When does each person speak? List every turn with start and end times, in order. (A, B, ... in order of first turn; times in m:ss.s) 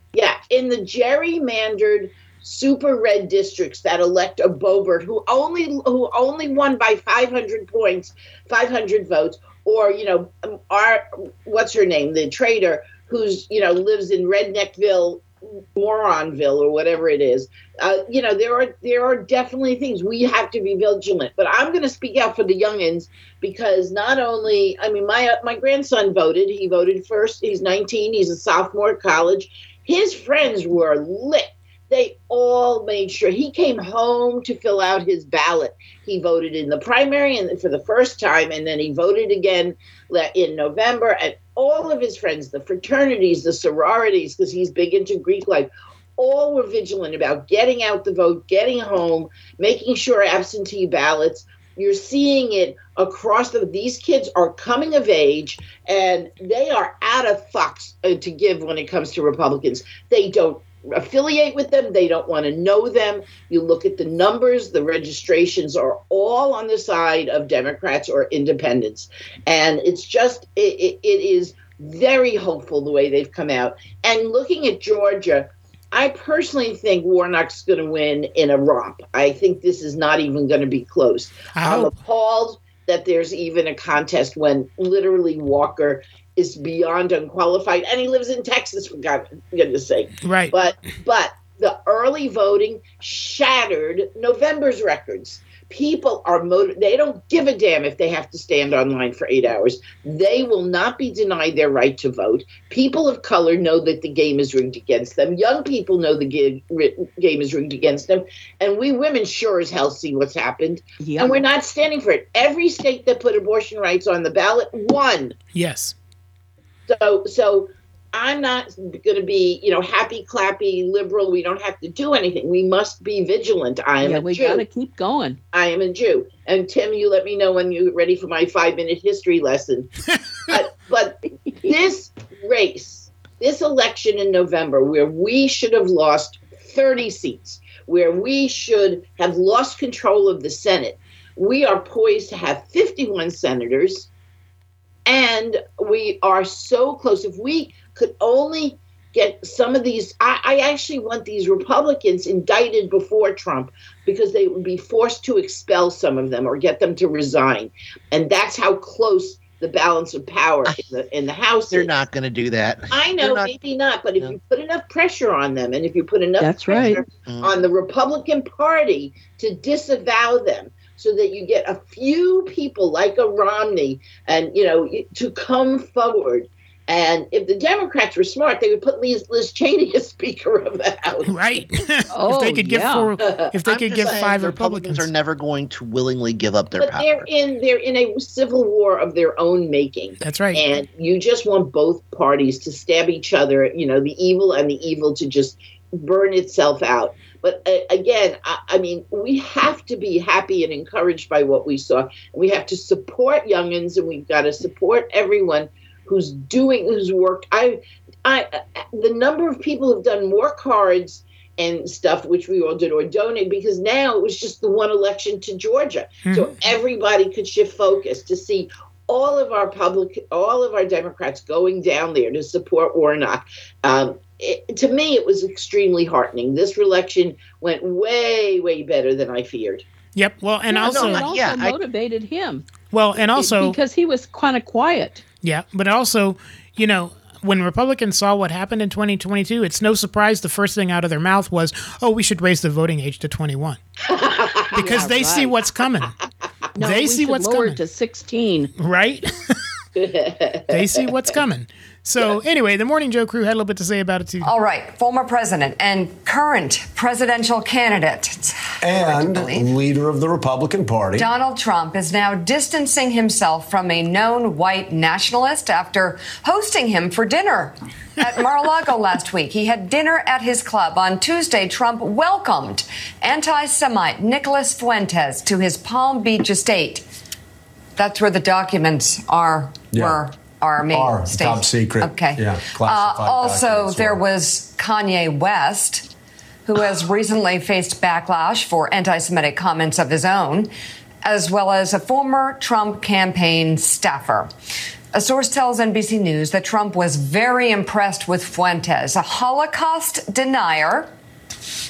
0:00.1-1:55.3 A
1:21.5-1:21.9 B
1:30.2-1:30.5 B
1:51.0-1:51.4 C
1:55.5-1:55.9 B
1:56.9-2:04.6 A
2:04.0-2:05.4 C
2:05.5-2:09.9 A
2:10.5-2:24.1 A
2:25.0-2:41.9 A
2:41.7-2:43.5 D
2:42.9-3:01.3 A
2:46.4-2:47.0 C
2:47.0-2:47.6 D
3:01.3-3:05.1 B
3:02.1-3:03.1 C
3:03.2-3:03.5 A
3:03.6-3:07.3 D
3:06.8-3:49.8 A
3:10.2-3:10.6 B
3:36.2-3:36.6 B
3:50.2-3:51.3 B
3:50.7-3:52.7 C
3:50.8-3:51.8 D
3:52.9-3:53.8 B
3:53.4-3:55.2 C
3:55.4-4:03.8 B
4:04.1-4:05.0 A
4:04.7-4:06.1 B
4:04.8-4:05.6 C
4:06.8-4:08.7 C
4:06.8-4:07.8 B
4:08.8-4:09.3 B
4:10.0-4:10.9 A
4:10.7-4:14.5 B
4:14.4-4:19.7 E
4:18.8-4:21.3 F
4:21.2-4:37.0 E
4:38.0-4:46.1 E
4:39.9-4:40.2 F
4:40.9-4:44.2 F
4:46.6-4:50.7 E
4:51.2-4:54.5 E
4:55.1-5:01.1 E